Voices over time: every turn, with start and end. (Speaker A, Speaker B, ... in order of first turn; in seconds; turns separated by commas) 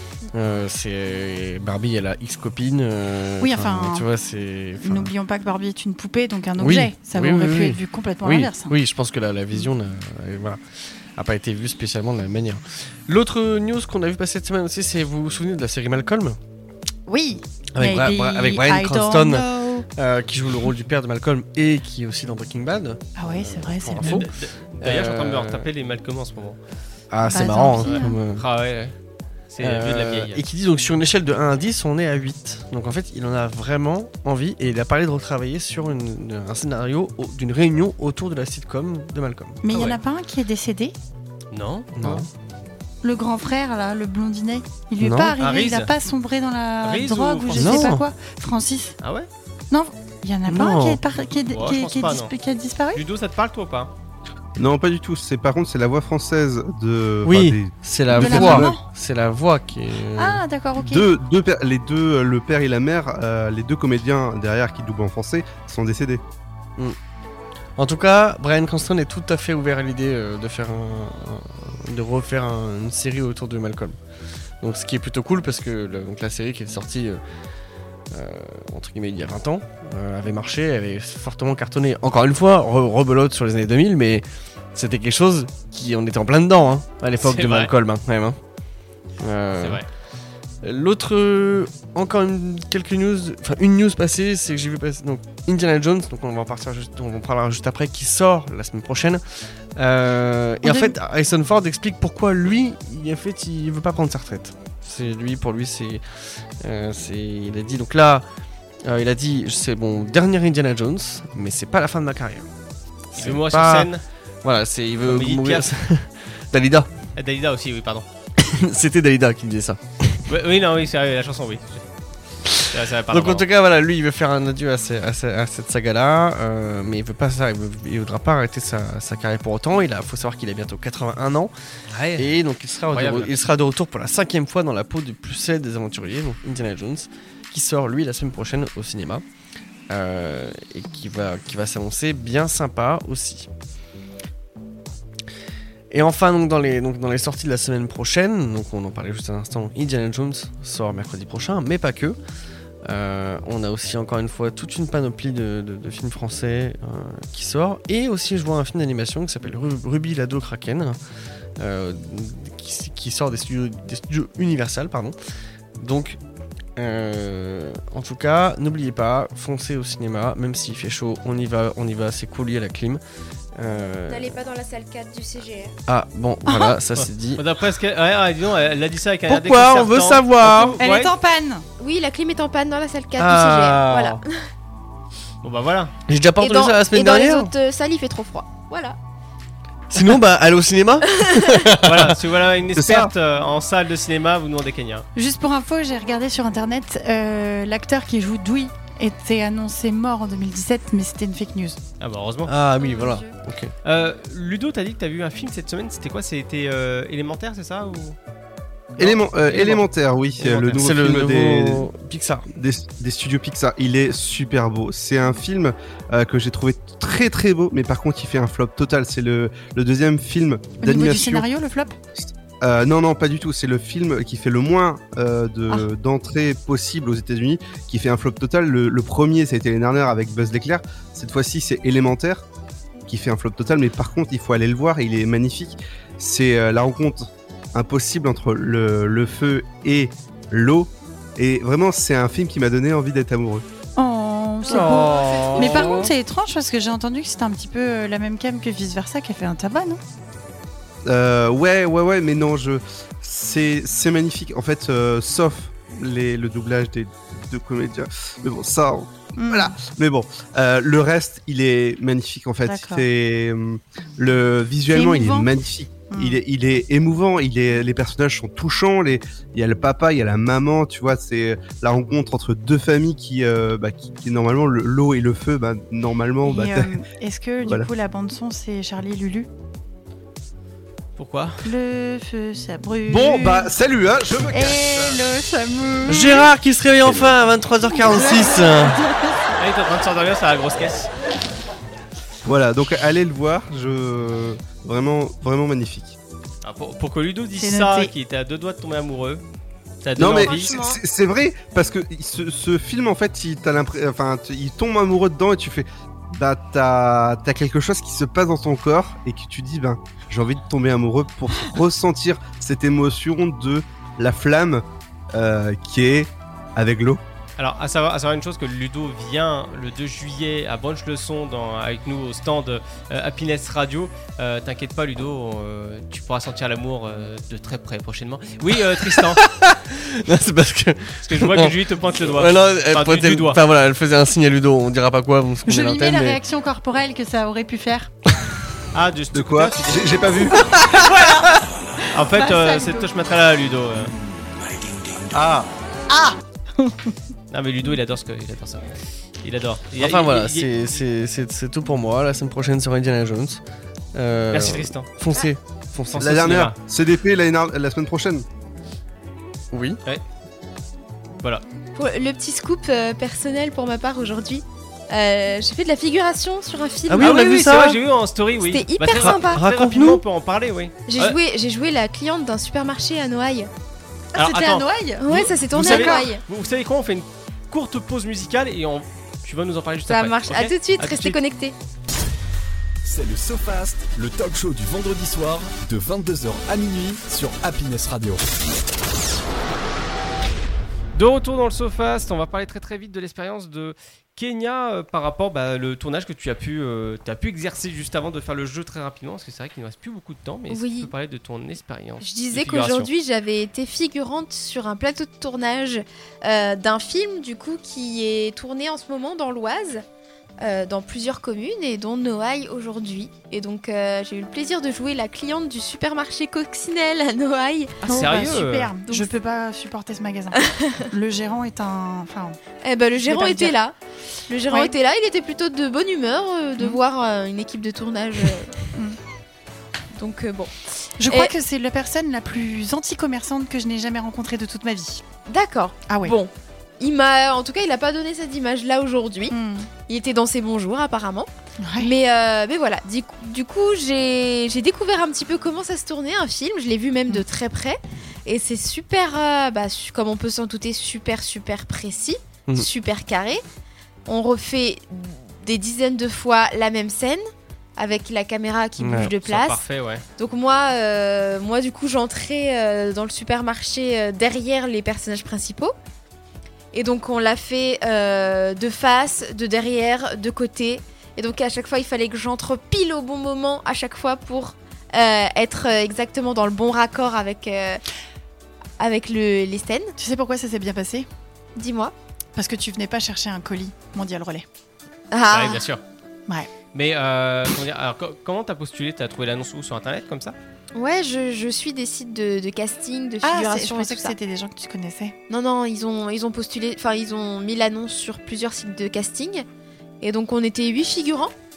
Speaker A: 0.3-5.1, Speaker B: 3.4-4.1, Speaker B: 4.8-8.7, Speaker A: 6.6-10.6, Speaker A: 11.1-16.4, Speaker B: 17.1-19.9, Speaker A: 17.7-25.7, Speaker B: 23.2-24.2, Speaker C: 24.0-26.6, Speaker A: 27.1-28.4, Speaker B: 27.2-28.1, Speaker C: 27.9-28.9, Speaker C: 29.5-30.4, Speaker A: 29.6-39.6, Speaker B: 39.6-40.9, Speaker C: 39.7-40.0, Speaker C: 41.5-42.2, Speaker A: 42.0-42.3, Speaker B: 43.0-49.0, Speaker A: 45.0-45.3, Speaker C: 45.4-45.9, Speaker C: 46.8-48.0, Speaker A: 47.5-48.0, Speaker C: 49.0-49.3, Speaker B: 49.7-53.0, Speaker A: 50.5-51.0, Speaker C: 51.5-52.3, Speaker C: 52.9-53.9, Speaker D: 54.6-58.7, Speaker A: 57.2-60.4, Speaker B: 58.1-58.8, Speaker B: 60.2-61.1, Speaker D: 60.8-66.2, Speaker A: 67.8-74.0, Speaker A: 74.6-77.2, Speaker A: 78.1-88.4, Speaker C: 87.2-87.7, Speaker A: 89.2-89.8, Speaker C: 89.6-89.9, Speaker A: 90.6-106.0, Speaker B: 100.6-100.9, Speaker A: 106.6-108.2, Speaker A: 108.8-112.5, Speaker A: 113.1-113.9, Speaker C: 113.2-114.0, Speaker A: 114.4-116.9, Speaker C: 115.0-115.7, Speaker C: 117.2-118.0, Speaker A: 118.4-120.2, Speaker C: 120.3-121.9, Speaker A: 122.4-131.5, Speaker C: 122.6-123.5, Speaker C: 131.9-132.4, Speaker A: 132.1-139.2, Speaker C: 132.9-133.3, Speaker A: 139.9-143.5, Speaker A: 145.9-152.2, Speaker A: 152.8-161.0, Speaker A: 161.6-165.1, Speaker A: 165.8-166.2, Speaker A: 166.8-173.0, Speaker A: 173.6-174.4, Speaker E: 174.1-175.7, Speaker A: 175.9-177.4, Speaker B: 176.4-176.8, Speaker C: 177.0-181.1, Speaker A: 179.3-180.8, Speaker B: 180.8-181.7, Speaker E: 181.8-184.2, Speaker A: 183.2-184.2, Speaker C: 185.4-185.9, Speaker A: 186.1-187.5, Speaker E: 186.4-189.0, Speaker A: 189.9-192.2, Speaker C: 191.8-195.1, Speaker D: 192.7-193.1, Speaker B: 195.1-201.8, Speaker C: 202.0-202.5, Speaker A: 202.4-203.7, Speaker E: 202.8-203.3, Speaker C: 203.8-208.2, Speaker C: 209.0-209.8, Speaker D: 209.0-211.9, Speaker C: 210.4-210.8, Speaker A: 210.8-212.5, Speaker D: 212.6-221.4, Speaker B: 220.8-221.9, Speaker D: 222.6-232.4, Speaker D: 233.1-243.6, Speaker B: 243.9-250.0, Speaker A: 244.7-246.1, Speaker C: 244.7-246.1, Speaker E: 245.1-245.9, Speaker D: 251.1-277.0, Speaker B: 259.4-259.8, Speaker B: 262.6-263.1, Speaker B: 264.9-265.5, Speaker B: 266.1-266.4, Speaker B: 276.4-279.5, Speaker C: 281.2-281.7, Speaker B: 281.6-283.7, Speaker D: 283.1-285.2, Speaker B: 284.5-286.5, Speaker A: 286.1-289.0, Speaker B: 288.0-289.5, Speaker C: 289.6-291.1, Speaker D: 292.4-296.2, Speaker C: 296.6-299.4, Speaker B: 297.6-298.1, Speaker C: 300.0-300.7, Speaker D: 300.1-317.2, Speaker E: 300.2-301.0, Speaker C: 317.6-329.4, Speaker A: 328.9-336.4, Speaker C: 331.2-333.6, Speaker B: 335.6-338.1, Speaker C: 338.9-340.6, Speaker D: 339.3-340.7, Speaker B: 340.6-343.1, Speaker C: 342.1-344.1, Speaker D: 345.3-345.7, Speaker B: 346.1-347.1, Speaker C: 347.5-351.0, Speaker A: 350.0-353.6, Speaker A: 354.1-356.6, Speaker C: 354.5-355.1, Speaker C: 356.1-356.8, Speaker D: 356.2-358.4, Speaker A: 359.7-360.0, Speaker E: 361.9-367.4, Speaker A: 367.1-368.0, Speaker C: 367.2-371.4, Speaker E: 368.7-369.6, Speaker A: 369.1-370.2, Speaker E: 371.1-373.7, Speaker B: 374.3-376.3, Speaker C: 374.3-381.4, Speaker E: 375.2-376.4, Speaker E: 380.1-381.7, Speaker F: 383.0-388.4, Speaker C: 391.1-403.1, Speaker E: 400.7-401.1, Speaker E: 402.2-410.0, Speaker E: 410.6-418.0, Speaker B: 418.0-422.6, Speaker C: 418.1-418.9, Speaker E: 420.6-421.1, Speaker E: 422.8-423.9, Speaker B: 423.2-423.7, Speaker E: 424.5-428.7, Speaker E: 430.1-430.7, Speaker B: 431.2-435.2, Speaker E: 431.2-431.5, Speaker E: 435.5-439.5, Speaker B: 436.1-436.3, Speaker B: 439.5-439.9, Speaker E: 440.1-453.6, Speaker B: 441.8-442.1, Speaker E: 454.3-457.4, Speaker E: 458.0-459.8, Speaker A: 459.0-459.3, Speaker C: 459.4-460.2, Speaker E: 460.4-465.9, Speaker E: 466.9-478.0, Speaker E: 479.0-480.1, Speaker B: 480.2-481.3, Speaker E: 481.8-482.1, Speaker B: 482.5-484.6, Speaker E: 485.3-485.8, Speaker C: 485.5-486.0, Speaker C: 486.9-490.6, Speaker E: 490.9-494.3, Speaker B: 493.4-495.3, Speaker E: 495.5-499.6, Speaker E: 500.2-501.5